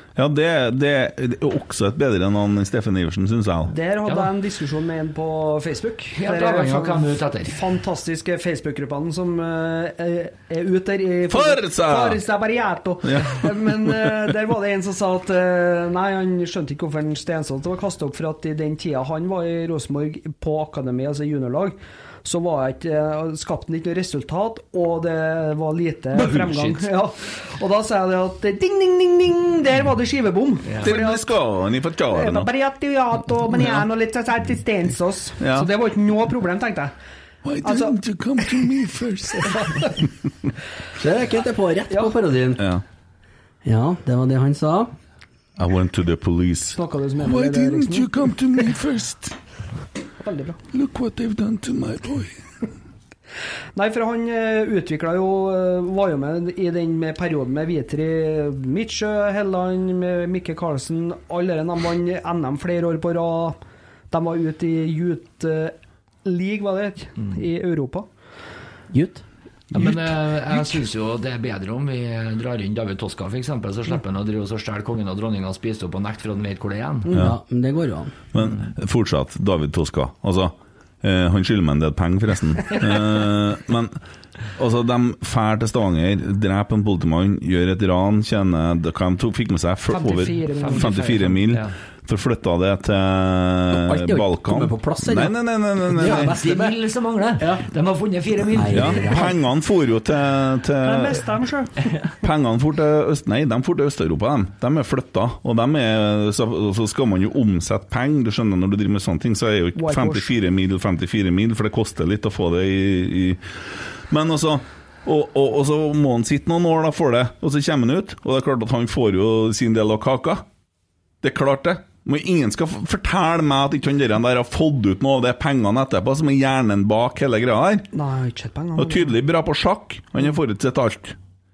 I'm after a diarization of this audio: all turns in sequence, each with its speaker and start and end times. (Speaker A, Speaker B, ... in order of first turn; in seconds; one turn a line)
Speaker A: 0.1-3.7
Speaker B: 3.7-31.4
Speaker C: 4.0-4.3
Speaker C: 6.2-7.7
Speaker A: 11.3-12.2
Speaker A: 13.0-14.1
Speaker A: 26.4-26.6
Speaker C: 30.7-30.9
Speaker A: 30.8-32.5
Speaker B: 32.1-36.9
Speaker A: 33.5-33.8
Speaker A: 35.4-35.7
Speaker A: 37.4-39.9
Speaker B: 37.6-38.0
Speaker B: 39.4-40.0
Speaker D: 41.0-42.6
Speaker A: 42.6-42.8
Speaker D: 43.6-44.9
Speaker A: 45.6-49.4
Speaker B: 46.7-48.2
Speaker B: 50.2-50.6
Speaker A: 50.7-52.4
Speaker B: 53.8-63.6
Speaker B: 64.1-68.1
Speaker D: 68.9-69.2
Speaker C: 69.7-77.1
Speaker A: 69.7-70.0
Speaker D: 77.1-78.1
Speaker A: 78.3-84.0
Speaker A: 84.5-96.3
Speaker B: 89.9-91.4
Speaker C: 90.6-91.7
Speaker D: 93.7-96.8
Speaker C: 96.0-99.3
Speaker D: 97.4-97.6
Speaker D: 98.5-99.3
Speaker A: 98.7-101.3
Speaker B: 100.8-101.9
Speaker A: 102.2-120.4
Speaker B: 109.8-110.3
Speaker A: 121.2-127.9
Speaker B: 127.9-129.1
Speaker A: 128.8-131.2